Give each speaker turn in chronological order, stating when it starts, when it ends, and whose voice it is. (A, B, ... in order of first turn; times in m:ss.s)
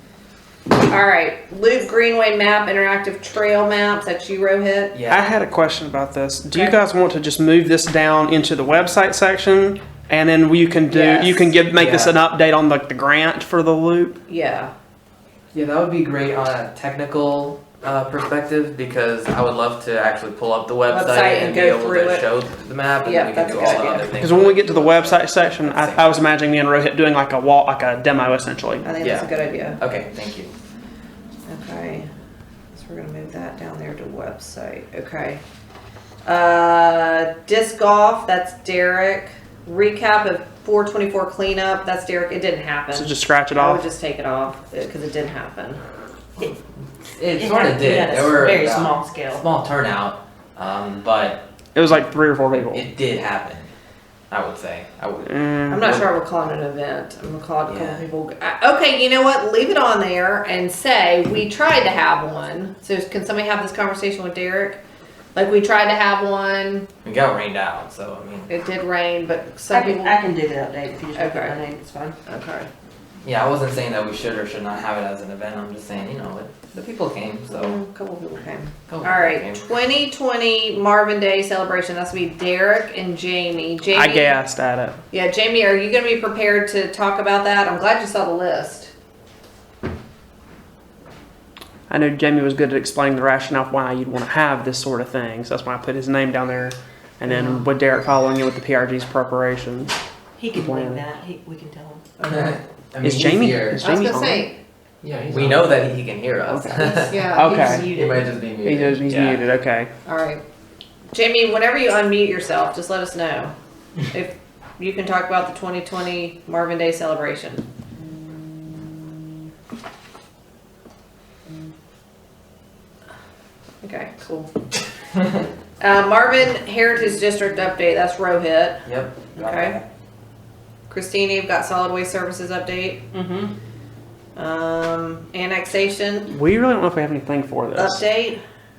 0:00.9-0:05.0 A
0:04.9-0:05.2 B
0:05.1-0:14.2 C
0:10.9-0:11.5 A
0:11.7-0:12.2 B
0:14.3-0:14.7 A
0:15.5-0:26.2 B
0:20.9-0:22.2 A
0:23.0-0:24.1 A
0:24.2-0:28.9 C
0:28.8-0:29.8 A
0:29.0-0:30.5 B
0:31.5-0:32.1 A
0:32.7-0:35.4 A
0:36.2-0:45.8 A
0:42.9-0:43.8 C
0:47.1-0:51.4 B
0:47.4-0:49.4 D
0:51.7-0:52.9 C
0:52.7-0:53.7 B
0:54.3-0:56.0 B
0:55.2-0:55.9 C
0:55.7-1:04.8 A
0:57.6-0:58.0 B
1:05.3-1:06.9 A
1:07.0-1:08.5 B
1:08.5-1:10.2 A
1:09.7-1:12.2 D
1:11.1-1:11.6 A
1:12.2-1:12.7 A
1:13.2-1:17.8 B
1:17.5-1:24.3 A
1:18.9-1:19.6 B
1:23.9-1:25.0 C
1:25.1-1:28.9 A
1:31.9-1:39.9 C
1:37.3-1:37.6 A
1:40.4-1:42.0 D
1:40.5-1:41.0 C
1:42.2-1:44.2 B
1:43.0-1:44.5 C
1:43.8-1:44.6 A
1:45.3-1:49.5 B
1:46.5-1:47.8 C
1:46.8-1:47.9 A
1:47.4-1:48.3 D
1:48.6-1:49.9 C
1:50.0-1:50.4 A
1:51.1-1:53.5 A
1:54.1-1:57.6 A
2:03.8-2:04.2 A
2:04.2-2:04.5 D
2:05.1-2:05.4 B
2:05.8-2:09.8 A
2:08.8-2:09.8 B
2:10.9-2:13.0 A
2:13.1-2:13.5 D
2:14.4-2:16.4 A
2:16.3-2:18.0 C
2:17.7-2:18.4 A